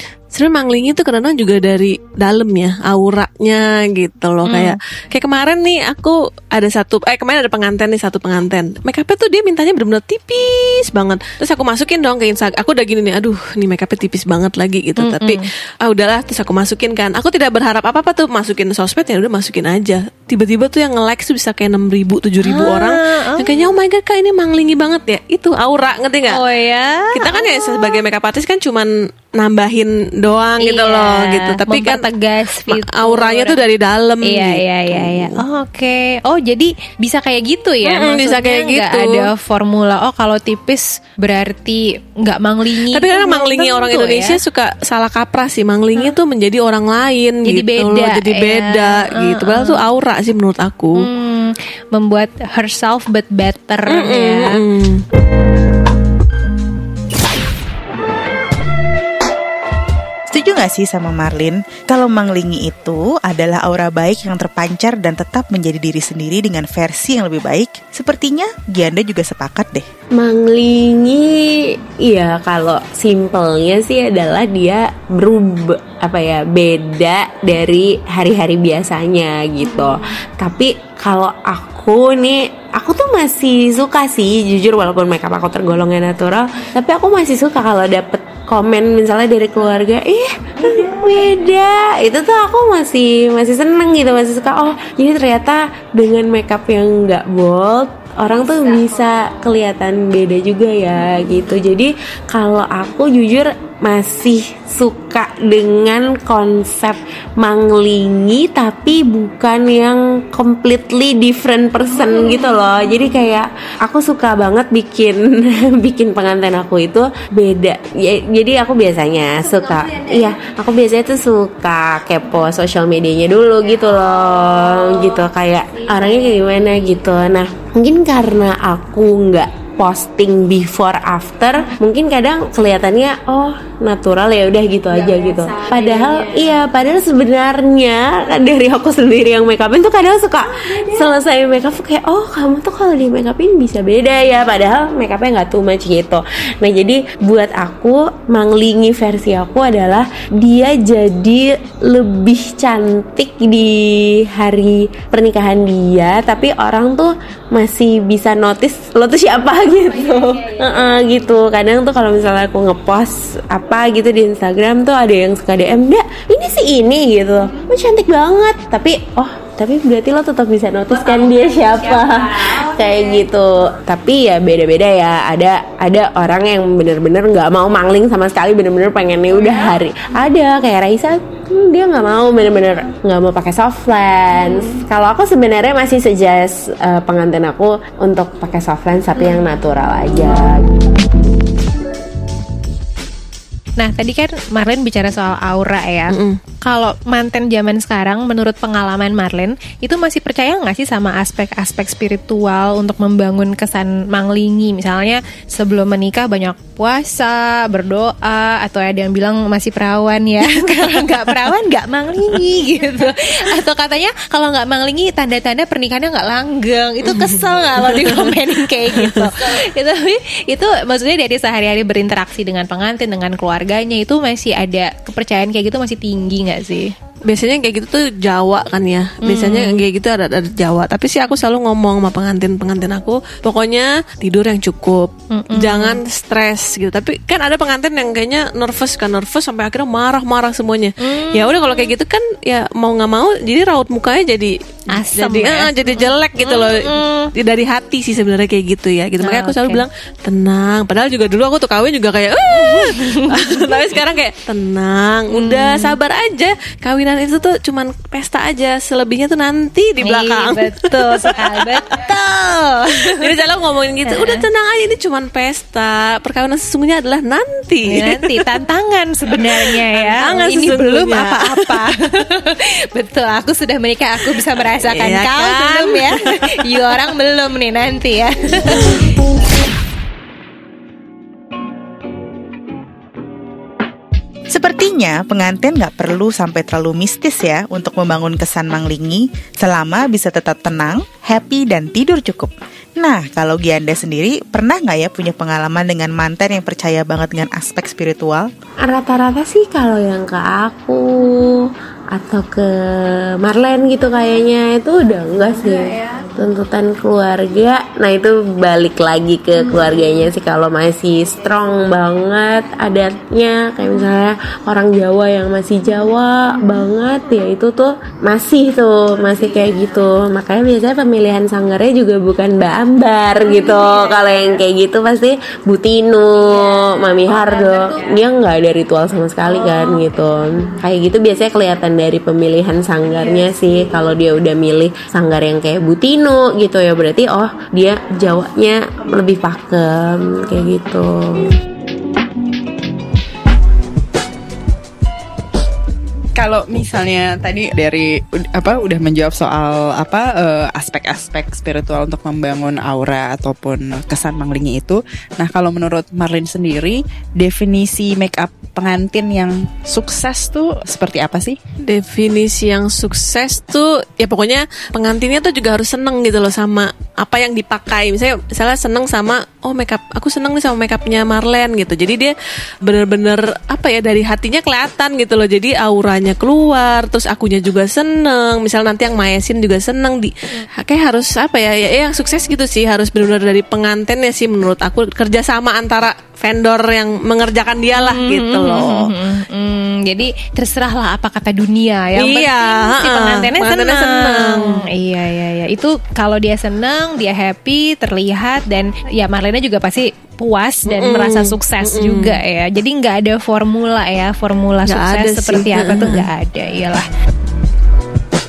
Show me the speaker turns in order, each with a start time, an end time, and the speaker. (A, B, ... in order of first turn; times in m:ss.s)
0:00.3-0:26.4 A
0:04.4-0:04.8 B
0:15.0-0:15.4 B
0:22.4-0:23.6 B
0:26.3-0:28.0 B
0:27.1-0:32.0 A
0:30.6-0:33.6 B
0:32.7-0:35.4 A
0:34.2-0:44.4 B
0:37.8-0:39.3 A
0:42.9-0:51.1 A
0:47.4-0:49.8 B
0:51.0-0:54.6 B
0:53.9-0:55.0 A
1:00.3-1:09.9 C
1:10.1-3:10.8 D
3:13.8-3:46.9 B
3:16.1-3:16.4 A
3:30.6-3:31.1 A
3:37.0-3:39.3 A
3:47.3-4:21.8 A
3:49.2-3:49.8 B
3:55.3-3:56.0 B
4:01.0-4:01.5 B
4:04.9-4:07.3 B
4:09.2-4:09.8 B
4:12.5-4:13.8 B
4:15.3-4:16.0 B
4:20.0-4:23.3 B
4:23.0-4:28.4 A
4:24.1-4:24.4 B
4:27.9-4:39.1 B
4:29.4-4:31.9 A
4:34.9-4:36.1 A
4:44.5-4:58.5 C
4:58.8-5:41.5 D
5:46.4-6:01.6 E
6:01.8-6:29.1 A
6:28.0-6:47.1 B
6:32.2-6:34.8 A
6:40.9-6:42.4 A
6:44.8-6:46.3 A